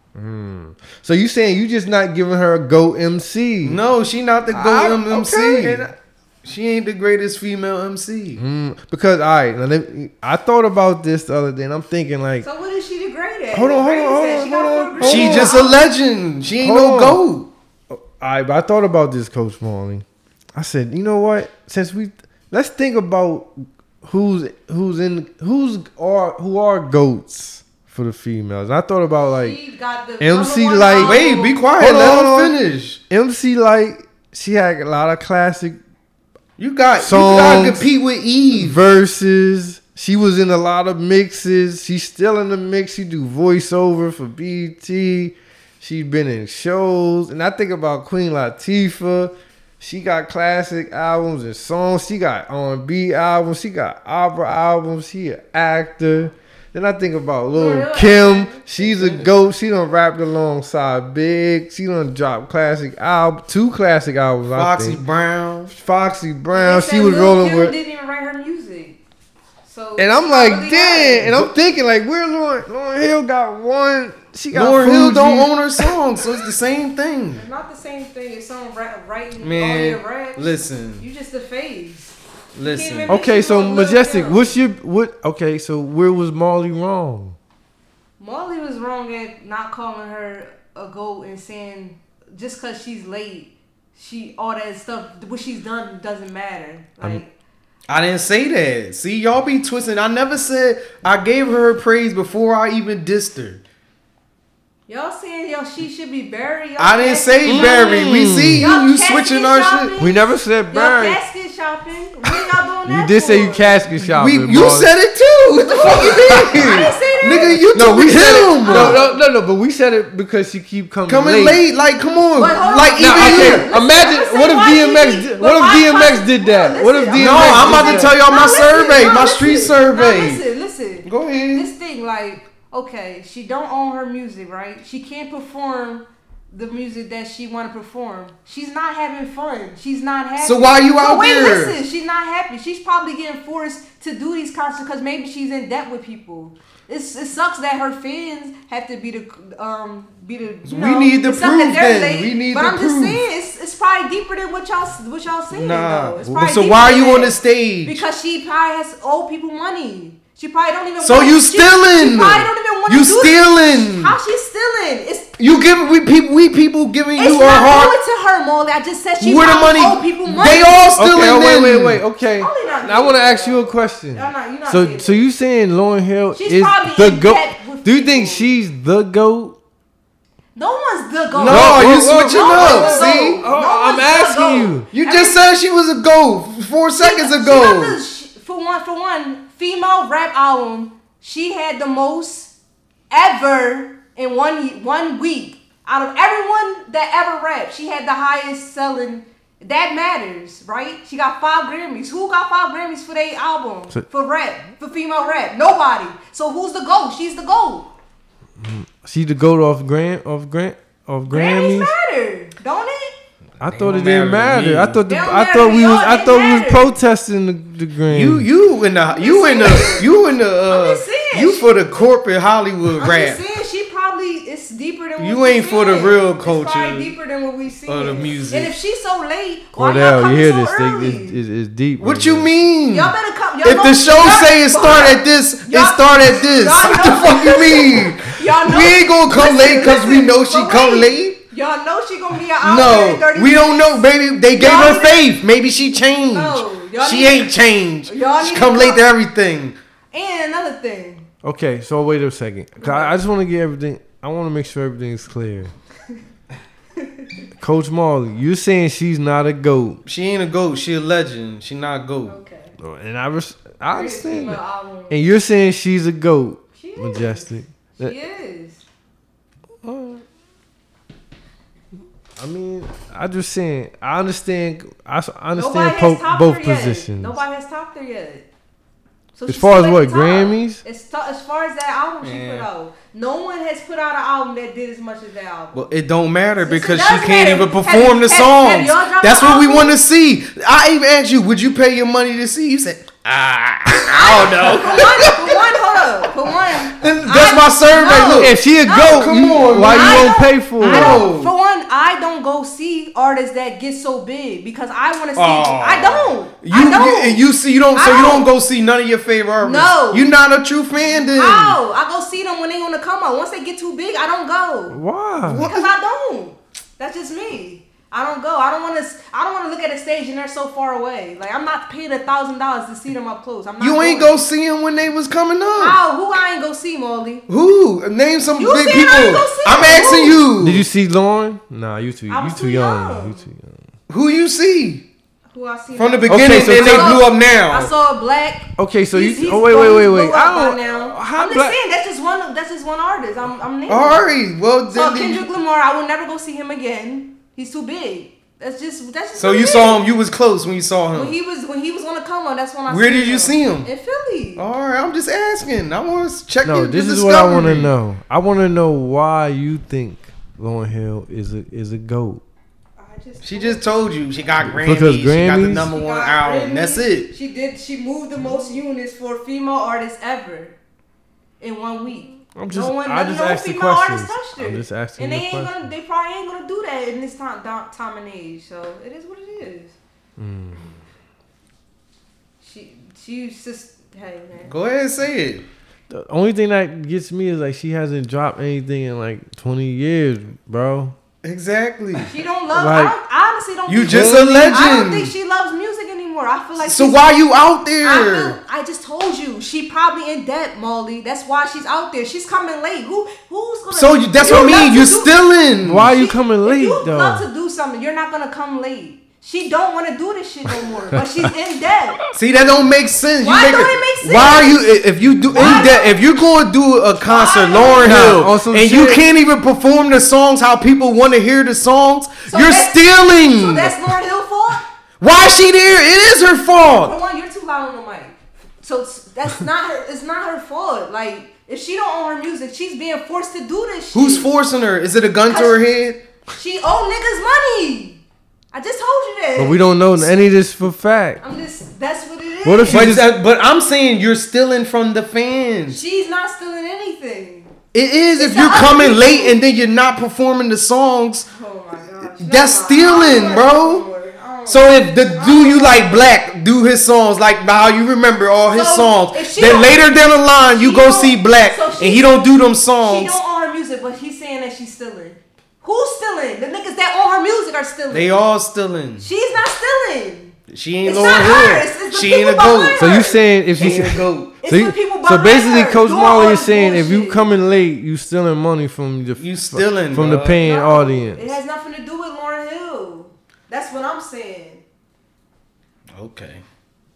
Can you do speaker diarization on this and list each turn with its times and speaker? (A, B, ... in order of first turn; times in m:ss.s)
0:00.1-0:03.8 A
0:03.6-0:08.4 B
0:04.5-0:05.9 A
0:08.4-0:12.5 A
0:12.4-0:15.8 C
0:13.5-0:15.6 A
0:15.0-0:17.5 B
0:16.6-0:17.2 A
0:17.9-0:29.6 A
0:29.4-0:31.6 C
0:30.2-0:31.2 A
0:30.9-0:33.0 B
0:31.8-0:32.6 A
0:33.1-0:35.8 A
0:36.6-0:38.8 B
0:37.0-0:37.9 A
0:38.5-1:05.0 A
0:57.5-0:58.8 C
0:58.9-0:59.3 B
1:04.5-1:05.7 B
1:05.7-1:07.7 A
1:06.5-1:09.0 C
1:09.6-1:11.3 C
1:10.0-1:15.9 A
1:14.5-1:17.4 B
1:17.4-1:24.6 C
1:19.4-1:21.0 B
1:22.5-1:23.2 B
1:23.1-1:27.4 A
1:28.2-1:37.3 C
1:37.9-1:43.6 B
1:44.9-1:53.8 C
1:46.8-1:49.9 B
1:47.5-1:48.7 A
1:50.0-1:51.2 A
1:52.8-1:54.9 A
1:54.0-1:59.0 B
1:55.6-1:59.2 C
1:56.0-1:56.8 A
1:57.6-2:01.6 A
2:01.1-2:03.7 B
2:02.4-2:45.3 C
2:03.0-2:08.2 A
2:07.1-2:10.4 B
2:11.0-2:11.7 B
2:20.4-2:21.8 B
2:30.6-2:33.2 B
2:35.5-2:38.0 B
2:41.0-2:44.2 B
2:45.4-2:48.0 B
2:47.2-2:50.9 C
2:49.2-2:52.0 B
2:51.0-2:59.6 A
2:52.4-2:55.2 C
2:56.3-2:58.5 C
3:00.6-3:05.5 C
3:01.3-3:03.4 B
3:01.4-3:04.9 A
3:04.9-3:08.0 B
3:07.0-3:12.5 C
3:13.1-3:27.9 C
3:28.6-3:31.9 A
3:31.3-3:33.1 C
3:33.6-3:38.5 A
3:33.6-3:35.0 B
3:35.1-3:36.9 C
3:38.1-3:43.4 B
3:39.1-3:40.1 C
3:40.7-3:41.7 C
3:43.0-3:51.4 C
3:45.2-3:47.1 B
3:47.9-3:48.7 B
3:49.8-3:52.5 A
3:52.0-4:01.4 B
3:52.9-4:05.3 C
4:02.6-4:09.8 B
4:06.3-4:09.0 C
4:10.1-4:11.3 C
4:11.4-4:15.7 A
4:12.8-4:13.2 C
4:17.0-4:17.3 C
4:17.6-4:20.0 A
4:20.0-4:22.4 B
4:22.3-4:22.8 C
4:22.8-4:28.1 A
4:23.9-4:25.2 C
4:26.8-4:28.8 C
4:29.8-4:30.2 A
4:32.4-4:37.4 A
4:35.5-4:38.5 C
4:39.3-4:45.8 C
4:39.5-4:40.8 A
4:42.2-4:42.7 B
4:45.7-4:55.8 B
4:46.6-4:50.0 C
4:54.1-5:08.5 C
4:54.3-4:55.0 A
4:56.8-5:01.5 B
4:58.4-5:01.3 A
5:05.4-5:11.8 B
5:09.6-5:10.3 C
5:11.1-5:15.0 C
5:14.9-5:15.7 A
5:15.4-5:15.9 B
5:15.6-5:24.4 C
5:23.8-5:26.0 B
5:25.8-5:27.4 C
5:27.5-5:30.8 B
5:28.6-5:30.4 C
5:30.6-5:33.8 A
5:32.3-5:33.4 C
5:34.1-5:35.0 B
5:35.5-5:44.3 C
5:36.0-5:37.9 B
5:36.3-5:37.3 A
5:38.8-5:41.8 A
5:43.9-5:45.5 B
5:44.9-5:50.0 C
5:49.4-5:51.4 B
5:51.1-5:54.6 C
5:52.9-5:53.9 B
5:54.6-5:57.9 B
5:56.6-6:02.4 A
6:03.0-6:03.8 C
6:03.4-6:07.3 B
6:04.6-6:05.9 A
6:05.8-6:10.7 C
6:11.6-6:19.9 C
6:12.6-6:15.8 A
6:20.4-6:21.0 A
6:22.6-6:24.7 C
6:24.6-6:25.6 B
6:26.1-6:31.2 A
6:31.4-6:32.3 B
6:32.2-6:37.4 C
6:32.7-6:33.2 A
6:33.9-6:35.3 B
6:34.0-6:34.8 A
6:36.8-6:38.6 B
6:38.0-6:45.4 C
6:43.9-6:46.1 B
6:45.8-6:47.5 A
6:46.0-6:52.2 C
6:52.3-7:04.0 B
6:53.4-6:54.9 C
6:55.5-6:56.2 C
6:57.2-6:58.4 C
6:58.0-6:59.2 A
7:02.5-7:04.8 C
7:05.2-7:07.1 B
7:06.9-7:14.5 C
7:14.1-7:16.2 B
7:15.5-7:15.8 C
7:16.6-7:18.2 C
7:18.7-7:20.4 C
7:19.6-7:21.4 A
7:21.4-7:23.2 C
7:22.6-7:23.3 A
7:22.9-7:26.0 B
7:25.9-7:27.7 C
7:27.9-7:31.5 B
7:28.4-7:29.6 C
7:31.5-7:36.3 C
7:32.4-7:34.0 B
7:34.6-7:43.4 B
7:38.7-7:40.0 C
7:40.6-7:42.4 C
7:43.0-7:48.4 C
7:48.1-7:49.3 B
7:49.2-7:57.4 C
7:50.7-7:53.1 B
7:53.0-8:01.5 A
7:53.8-7:54.5 B
7:59.4-8:00.6 B
8:00.6-8:04.8 C
8:06.1-8:06.6 B